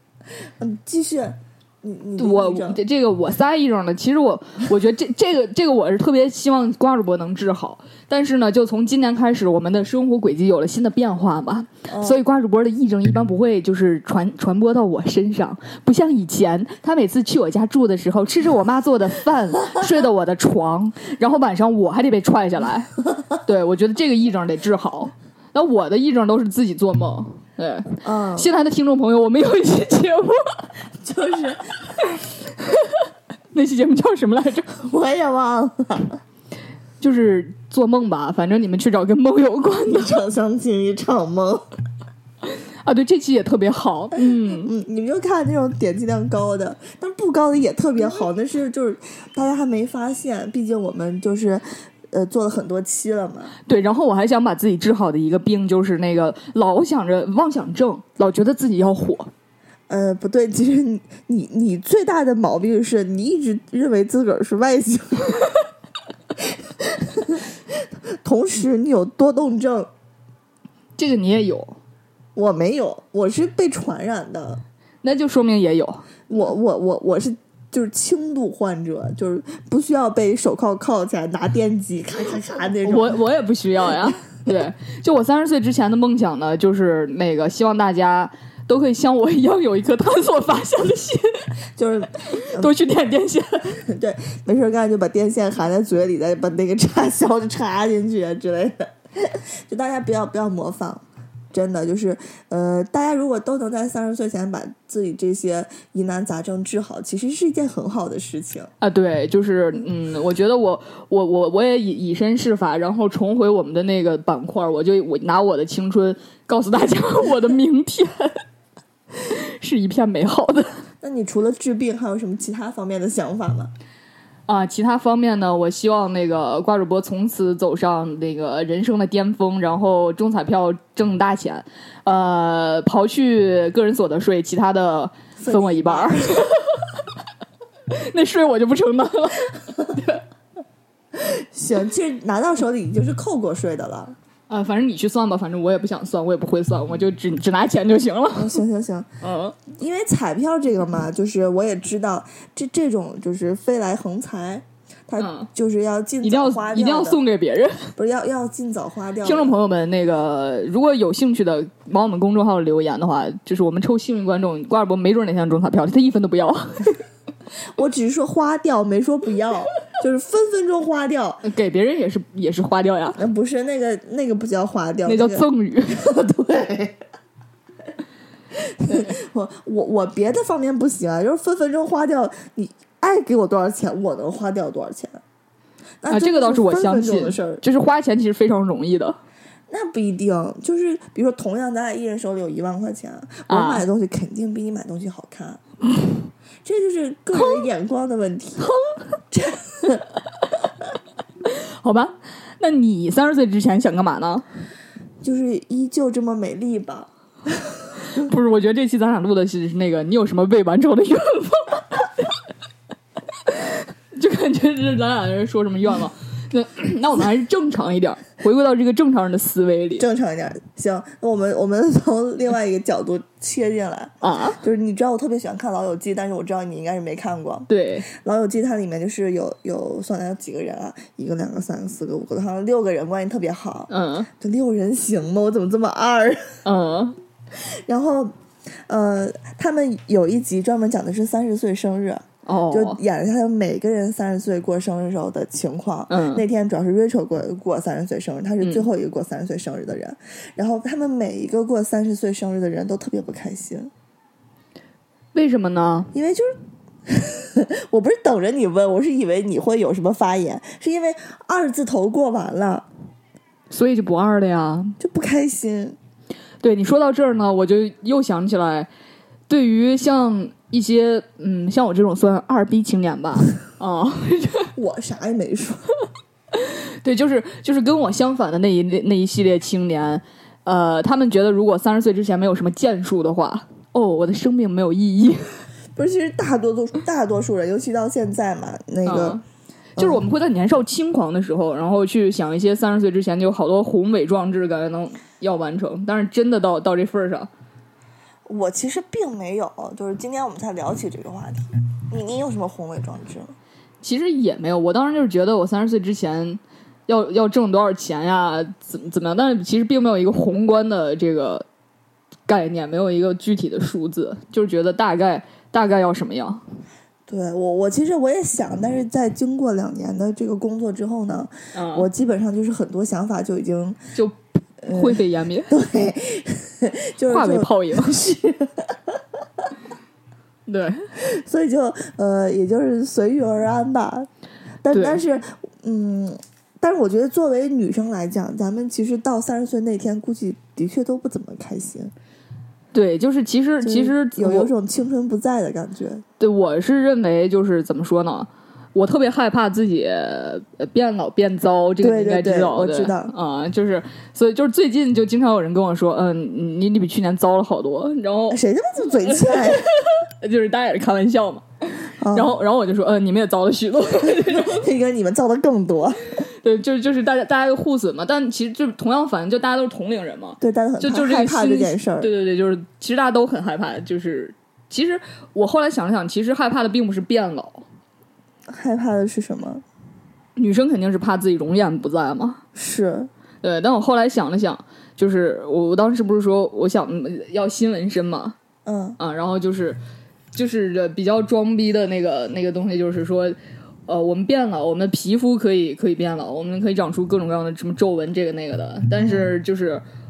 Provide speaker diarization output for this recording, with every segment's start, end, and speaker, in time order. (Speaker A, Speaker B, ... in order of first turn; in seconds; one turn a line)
Speaker A: 0.6-2.8
Speaker B: 2.2-22.9
Speaker A: 11.9-12.2
Speaker B: 23.4-30.6
Speaker A: 28.0-28.5
Speaker A: 31.0-31.8
Speaker B: 32.6-34.7
Speaker A: 34.7-36.2
Speaker B: 37.0-40.2
Speaker A: 39.9-41.6
Speaker B: 42.4-44.7
Speaker A: 44.5-53.5
Speaker B: 53.7-59.3
Speaker A: 59.9-65.5
Speaker A: 66.8-67.4
Speaker A: 68.2-69.9
Speaker B: 71.0-71.8
Speaker A: 72.3-74.6
Speaker B: 75.0-76.1
Speaker A: 76.3-83.2
Speaker B: 82.8-91.5
Speaker A: 91.8-92.7
Speaker B: 92.5-93.8
Speaker A: 93.9-108.7
Speaker B: 108.8-118.4
Speaker B: 119.1-120.8
Speaker A: 121.0-123.7
Speaker B: 124.5-136.8
Speaker A: 135.4-136.5
Speaker B: 137.9-140.2
Speaker A: 141.2-144.1
Speaker B: 144.5-148.6
Speaker A: 148.3-149.1
Speaker B: 149.2-149.6
Speaker A: 149.7-157.2
Speaker B: 155.2-155.5
Speaker B: 156.2-157.9
Speaker A: 157.9-159.5
Speaker B: 159.2-167.0
Speaker A: 167.8-171.4
Speaker B: 171.4-173.2
Speaker A: 173.2-177.0
Speaker B: 175.1-176.0
Speaker A: 178.6-185.2
Speaker A: 186.0-187.6
Speaker B: 186.1-189.2
Speaker A: 189.7-195.6
Speaker B: 193.5-193.8
Speaker A: 196.6-198.7
Speaker A: 199.3-200.1
Speaker B: 201.4-204.4
Speaker A: 205.2-207.1
Speaker B: 208.1-212.3
Speaker B: 213.4-220.1
Speaker A: 220.0-236.6
Speaker B: 224.2-224.6
Speaker B: 227.7-228.1
Speaker B: 233.9-234.3
Speaker B: 236.6-237.2
Speaker A: 237.8-238.3
Speaker A: 238.9-253.9
Speaker B: 242.4-243.0
Speaker B: 246.1-246.4
Speaker B: 255.3-256.1
Speaker A: 256.1-256.5
Speaker A: 257.1-262.9
Speaker B: 263.7-264.9
Speaker A: 265.0-266.0
Speaker B: 266.6-268.9
Speaker B: 269.5-274.7
Speaker A: 274.8-275.9
Speaker B: 276.5-285.5
Speaker A: 285.9-289.4
Speaker B: 289.1-289.4
Speaker B: 290.0-297.5
Speaker A: 290.0-290.2
Speaker A: 298.5-303.5
Speaker B: 304.0-311.6
Speaker B: 312.5-316.6
Speaker A: 317.3-324.0
Speaker B: 321.7-322.1
Speaker A: 324.8-329.6
Speaker B: 324.9-325.7
Speaker B: 327.3-328.1
Speaker B: 330.7-331.1
Speaker A: 331.2-334.3
Speaker A: 334.8-342.1
Speaker B: 334.9-335.2
Speaker B: 342.9-344.7
Speaker A: 343.8-346.2
Speaker B: 346.4-358.6
Speaker A: 352.0-353.3
Speaker A: 358.5-359.9
Speaker B: 359.2-364.9
Speaker A: 362.2-362.5
Speaker A: 364.4-366.4
Speaker B: 366.5-377.8
Speaker A: 370.6-372.3
Speaker A: 378.7-379.8
Speaker B: 380.6-382.6
Speaker A: 382.7-383.3
Speaker B: 383.6-388.6
Speaker A: 388.9-389.2
Speaker B: 389.2-390.0
Speaker B: 390.5-400.0
Speaker A: 399.2-399.5